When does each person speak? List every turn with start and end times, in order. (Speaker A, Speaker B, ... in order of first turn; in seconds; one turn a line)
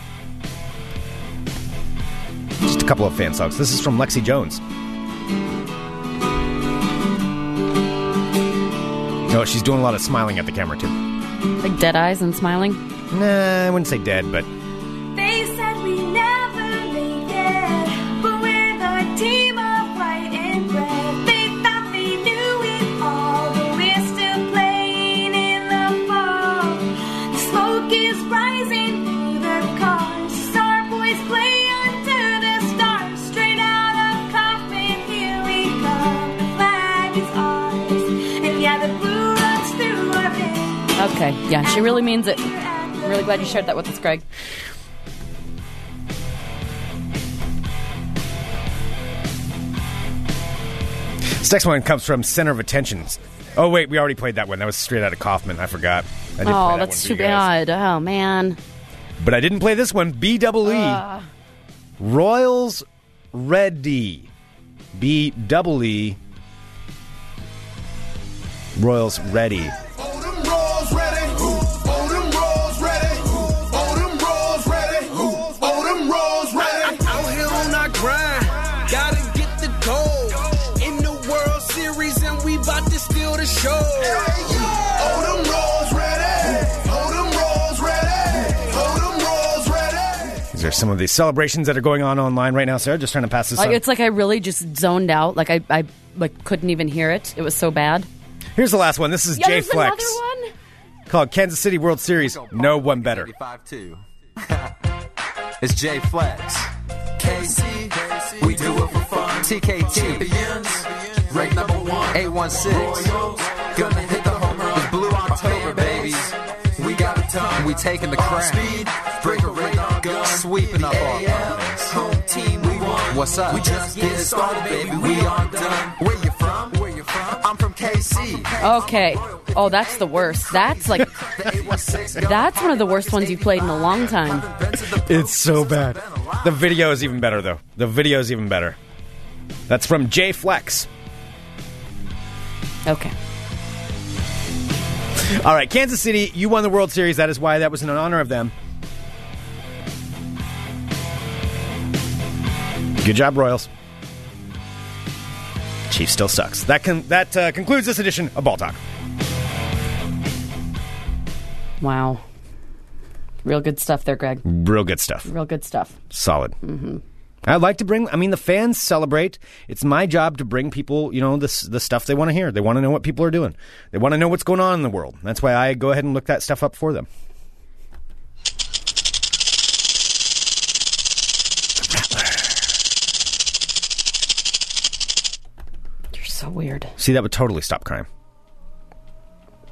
Speaker A: 2.6-4.6
Speaker A: 9.3-11.0
Speaker B: 11.6-12.8
Speaker A: 13.1-14.5
Speaker C: 15.1-43.8
Speaker B: 41.0-42.5
Speaker B: 43.0-44.2
Speaker A: 51.2-57.5
Speaker B: 56.4-58.6
Speaker A: 59.2-61.0
Speaker B: 60.6-61.2
Speaker A: 62.0-64.3
Speaker A: 64.9-66.2
Speaker A: 68.8-69.8
Speaker D: 70.4-90.4
Speaker A: 90.5-93.8
Speaker B: 93.6-98.1
Speaker A: 98.6-100.2
Speaker B: 99.3-100.5
Speaker A: 101.1-103.3
Speaker E: 102.2-104.6
Speaker E: 105.6-136.4
Speaker D: 108.5-109.4
Speaker D: 110.4-110.7
Speaker D: 111.5-112.1
Speaker D: 112.8-114.8
Speaker D: 115.7-116.0
Speaker D: 119.1-126.0
Speaker B: 128.6-131.1
Speaker B: 132.2-134.5
Speaker A: 134.9-138.8
Speaker A: 139.7-140.9
Speaker B: 142.9-143.1
Speaker A: 145.2-148.5
Speaker A: 153.0-153.7
Speaker A: 155.9-158.8
Speaker B: 161.8-162.2
Speaker B: 163.4-164.4
Speaker A: 164.4-165.3
Speaker B: 165.3-166.0
Speaker A: 166.1-166.6
Speaker B: 166.6-167.0
Speaker A: 167.4-177.1
Speaker A: 181.8-182.5
Speaker B: 186.1-186.9
Speaker A: 187.0-188.1